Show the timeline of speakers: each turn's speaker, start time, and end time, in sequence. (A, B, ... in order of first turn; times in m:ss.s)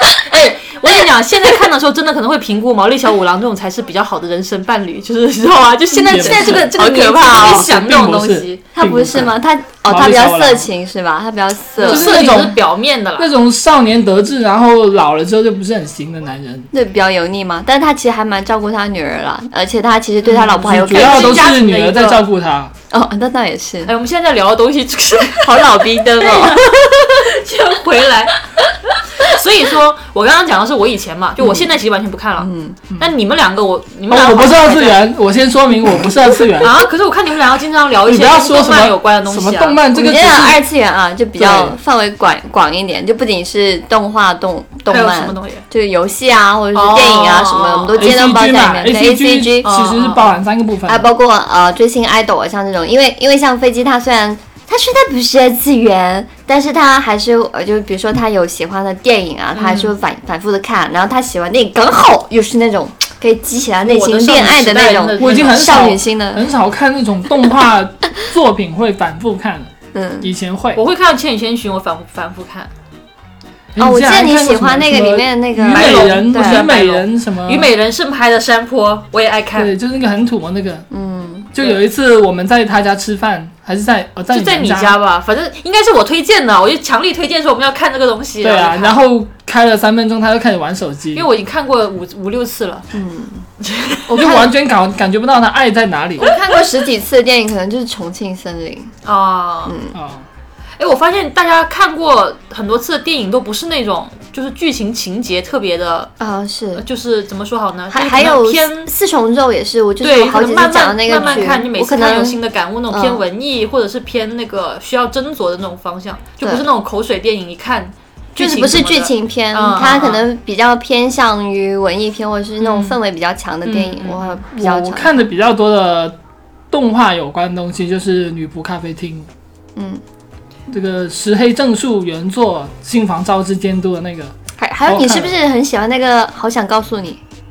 0:00.3-0:08.6 A
0:05.9-0:10.7 B
0:06.2-0:07.7 C
0:08.8-0:12.3 C
0:11.8-0:13.3 A
0:11.8-0:12.6 B
0:13.2-0:16.7 B
0:16.7-0:21.5 C
0:20.2-0:22.2 A
0:20.6-0:22.7 B
0:22.9-0:23.9 C
0:23.8-0:28.4 A
0:25.4-0:26.7 C
0:29.0-0:35.0 A
0:31.4-0:31.7 C
0:32.4-0:32.9 C
0:34.1-0:36.8 B
0:36.6-0:39.8 A
0:38.0-0:40.6 B
0:39.9-0:50.0 C
0:41.4-0:41.8 B
0:44.9-0:45.6 A
0:46.7-0:48.0 A
0:47.9-0:51.1 B
0:49.6-0:50.3 A
0:50.8-1:06.5 C
0:59.5-0:59.9 A
1:03.8-1:05.8 A
1:05.2-1:10.8 B
1:09.9-1:10.3 C
1:10.7-1:12.7 A
1:13.7-1:17.7 B
1:13.8-1:16.7 C
1:15.7-1:19.7 A
1:19.6-1:20.8 B
1:20.9-1:21.5 C
1:21.5-1:25.0 B
1:24.3-1:29.0 A
1:28.4-1:31.3 B
1:31.1-1:32.9 A
1:32.9-1:33.4 C
1:33.6-1:34.1 A
1:34.1-1:36.3 B
1:34.2-1:34.5 C
1:36.2-1:38.9 C
1:36.2-1:36.5 A
1:39.0-1:39.8 A
1:39.7-1:40.0 C
1:39.9-1:40.2 B
1:40.8-1:46.1 A
1:46.2-1:46.8 C
1:46.8-1:48.9 A
1:47.9-1:52.4 C
1:50.0-2:00.2 A
1:52.9-1:53.2 C
1:56.4-1:56.6 C
1:58.4-2:05.3 C
2:02.6-2:03.0 A
2:03.6-2:04.4 A
2:04.5-2:06.2 B
2:06.7-2:09.3 B
2:09.8-2:10.0 C
2:10.7-2:14.3 B
2:14.6-2:17.2 C
2:14.9-2:15.3 B